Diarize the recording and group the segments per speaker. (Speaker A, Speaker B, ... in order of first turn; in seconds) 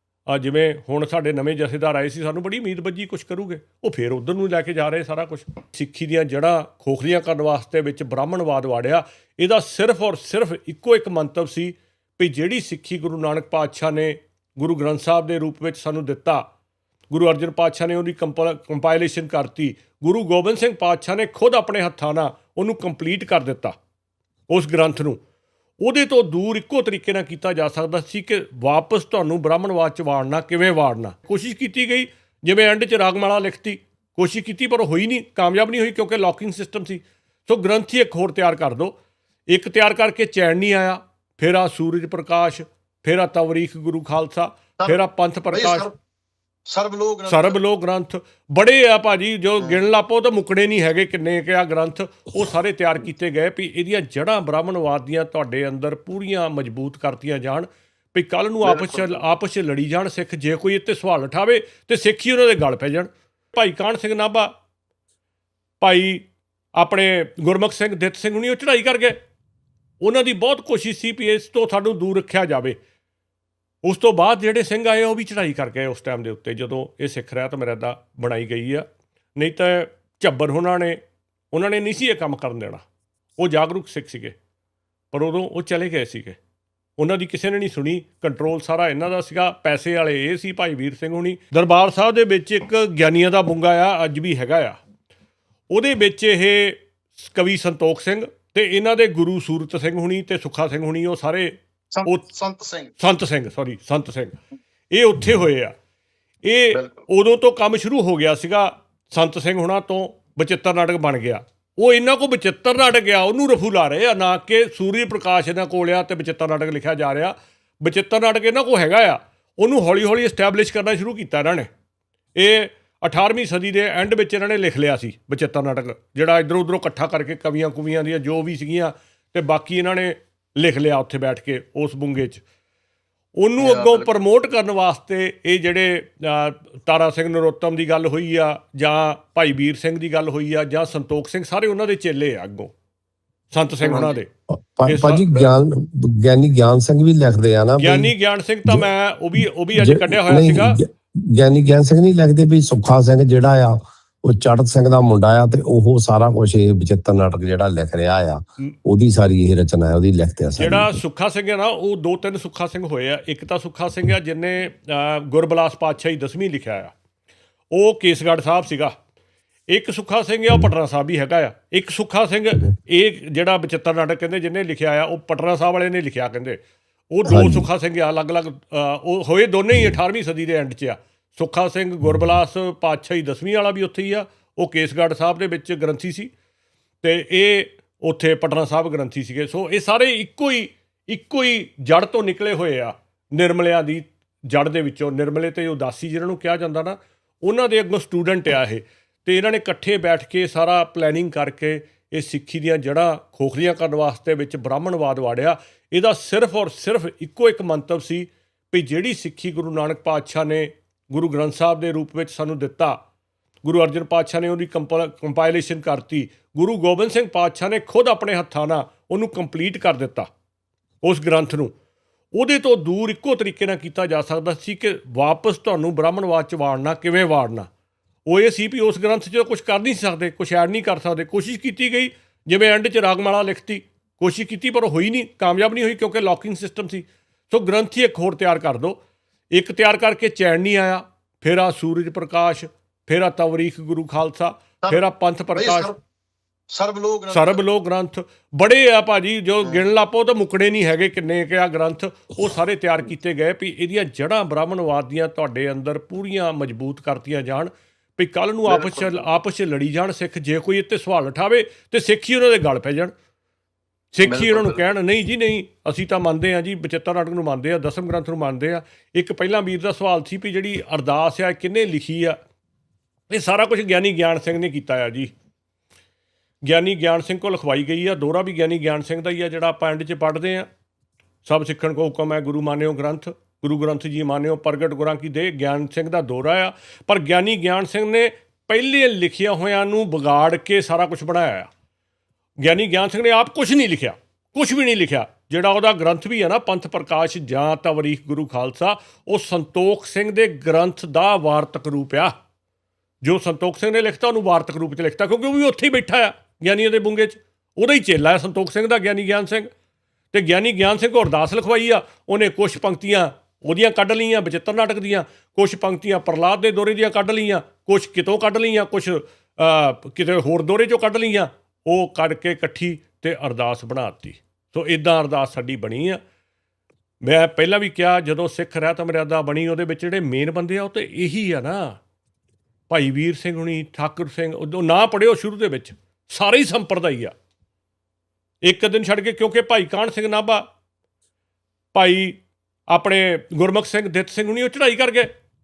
Speaker A: 0.3-16.4, 17.1-23.8, 24.5-25.2, 25.8-39.0, 39.5-45.9, 47.3-64.5, 65.8-66.2, 66.8-69.2, 70.0-72.8, 73.8-78.8, 79.4-81.0, 81.5-82.8, 83.4-84.3, 85.1-86.4, 87.0-94.8, 95.7-101.5, 103.0-104.4, 104.9-105.7, 106.4-121.7, 122.4-132.4, 133.4-142.7, 143.5-144.3, 144.9-145.5, 147.8-150.8, 160.6-166.9, 167.7-168.9, 169.7-176.6, 177.1-186.3, 187.0-213.0, 213.6-220.3, 221.0-221.7, 222.3-227.7, 228.3-239.0, 239.5-245.9, 247.3-263.1, 264.1-272.4, 273.3-275.3, 276.6-280.7, 281.4-291.7, 292.6-302.3, 303.2-309.7, 310.3-326.2, 327.2-332.0, 332.9-337.3, 338.6-340.6, 341.9-342.4, 342.9-345.3
Speaker B: 45.5-45.9, 46.7-47.5, 58.6-59.2, 101.9-102.9, 133.6-134.1, 143.8-144.2, 245.6-246.0, 246.7-247.6, 258.7-259.2, 264.2-264.9
Speaker C: 144.5-148.1, 149.8-160.9, 177.2-177.7